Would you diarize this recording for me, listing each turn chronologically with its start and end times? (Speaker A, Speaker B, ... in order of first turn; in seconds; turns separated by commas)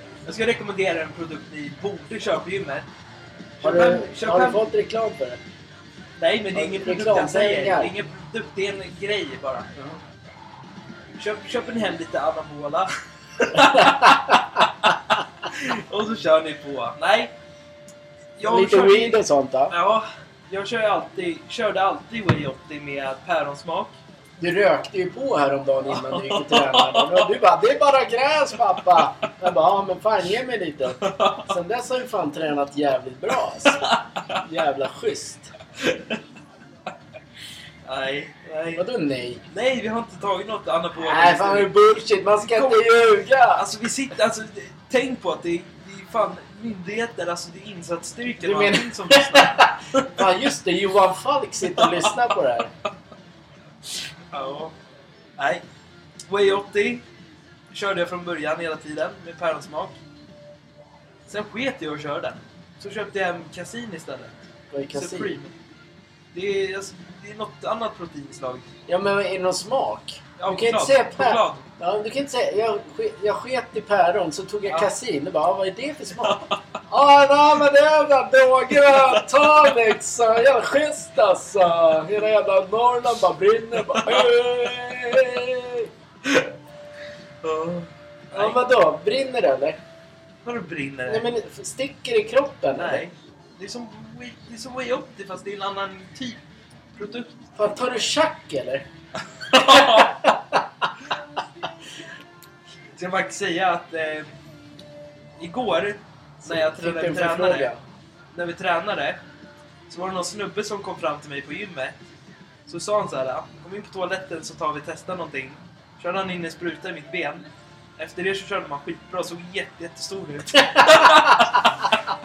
Speaker A: 0.2-2.9, Speaker A: 3.6-4.6, Speaker B: 3.6-5.4, Speaker A: 6.2-9.7, Speaker B: 6.5-7.9, Speaker A: 11.2-14.4, Speaker B: 13.5-14.9, Speaker A: 15.4-17.3, Speaker A: 18.4-23.9, Speaker B: 18.5-19.7, Speaker B: 24.4-35.5, Speaker A: 25.9-27.3, Speaker A: 31.0-31.5, Speaker A: 33.6-34.2, Speaker A: 35.8-36.2, Speaker A: 37.8-38.8, Speaker B: 38.7-39.4, Speaker A: 39.5-41.7, Speaker B: 41.0-43.6, Speaker A: 42.4-42.8, Speaker A: 43.5-50.1, Speaker B: 48.4-52.7, Speaker A: 51.8-52.1, Speaker A: 54.3-54.7, Speaker A: 55.4-55.6, Speaker A: 56.3-57.0, Speaker A: 57.7-60.0, Speaker A: 61.2-65.5, Speaker B: 64.7-65.4, Speaker A: 66.3-68.7, Speaker B: 68.9-85.9, Speaker A: 70.4-71.6, Speaker A: 76.2-76.5, Speaker A: 84.0-84.2, Speaker A: 86.2-86.5, Speaker A: 87.4-88.6, Speaker B: 88.3-89.8, Speaker A: 90.4-91.3, Speaker B: 91.1-93.0, Speaker A: 92.7-96.4, Speaker A: 96.9-97.5, Speaker B: 97.5-98.8, Speaker A: 99.5-100.2, Speaker B: 99.5-100.6, Speaker A: 102.9-104.3, Speaker A: 105.4-107.7, Speaker B: 106.4-107.8, Speaker A: 108.3-109.2, Speaker A: 109.9-112.0, Speaker A: 112.7-121.9, Speaker B: 120.7-121.4